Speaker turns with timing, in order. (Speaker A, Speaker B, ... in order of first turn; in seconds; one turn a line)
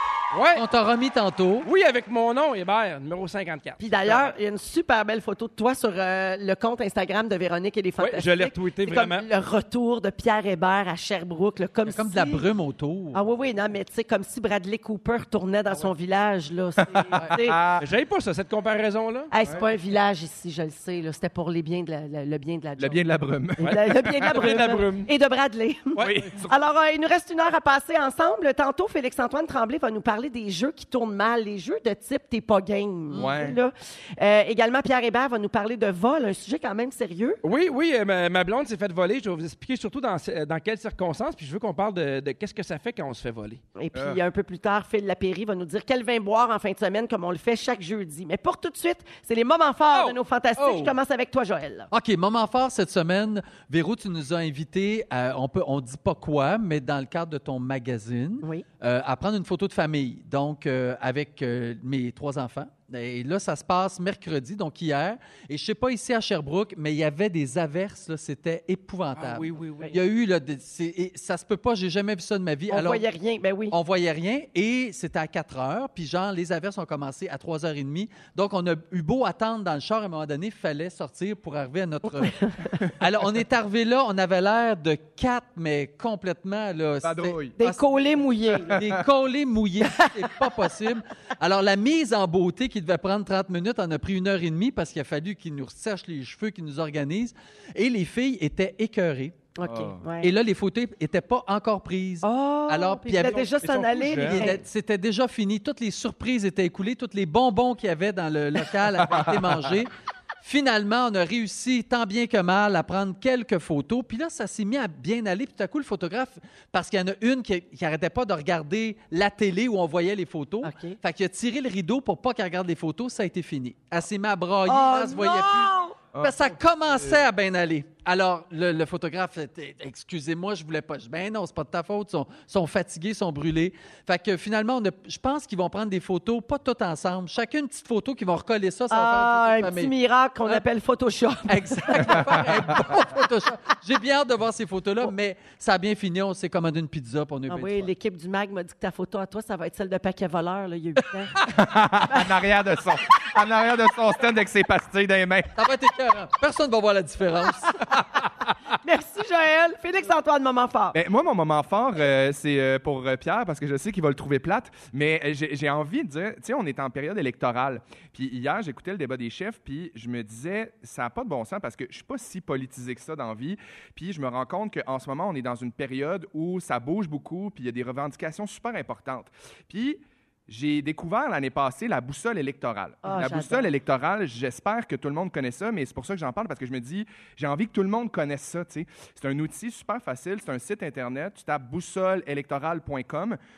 Speaker A: 0.3-0.6
Speaker B: 0.5-1.7
Speaker A: 1.6-4.3
Speaker C: 3.8-12.4
Speaker A: 8.0-9.3
Speaker B: 11.9-13.2
Speaker C: 13.1-17.6
Speaker D: 16.9-17.8
Speaker A: 17.8-19.3
Speaker C: 19.3-23.0
Speaker D: 22.8-24.7
Speaker C: 23.6-37.4
Speaker A: 23.6-25.1
Speaker A: 25.9-26.3
Speaker D: 26.0-26.6
Speaker B: 33.1-33.4
Speaker D: 33.1-33.6
Speaker A: 37.4-43.6
Speaker C: 43.8-51.9
Speaker D: 43.9-44.2
Speaker B: 50.6-51.0
Speaker B: 51.9-73.0
Speaker A: 69.2-69.8
Speaker C: 72.7-73.7
Speaker B: 73.7-88.0
Speaker C: 82.2-82.8
Speaker D: 87.0-87.6
Speaker C: 87.6-88.8
Speaker B: 88.6-99.4
Speaker D: 88.7-89.0
Speaker C: 89.8-90.4
Speaker C: 99.5-100.3
Speaker D: 99.6-100.0
Speaker B: 100.2-103.5
Speaker C: 102.2-104.6
Speaker A: 103.4-104.5
Speaker B: 104.3-109.9
Speaker B: 110.4-139.9
Speaker C: 120.6-121.0
Speaker C: 124.7-126.0
Speaker D: 126.1-127.2
Speaker C: 138.9-142.4
Speaker B: 141.5-147.9
Speaker C: 147.5-151.5
Speaker D: 151.5-155.6
Speaker B: 155.6-157.9
Speaker C: 158.8-160.9
Speaker D: 160.9-193.4
Speaker C: 183.0-183.7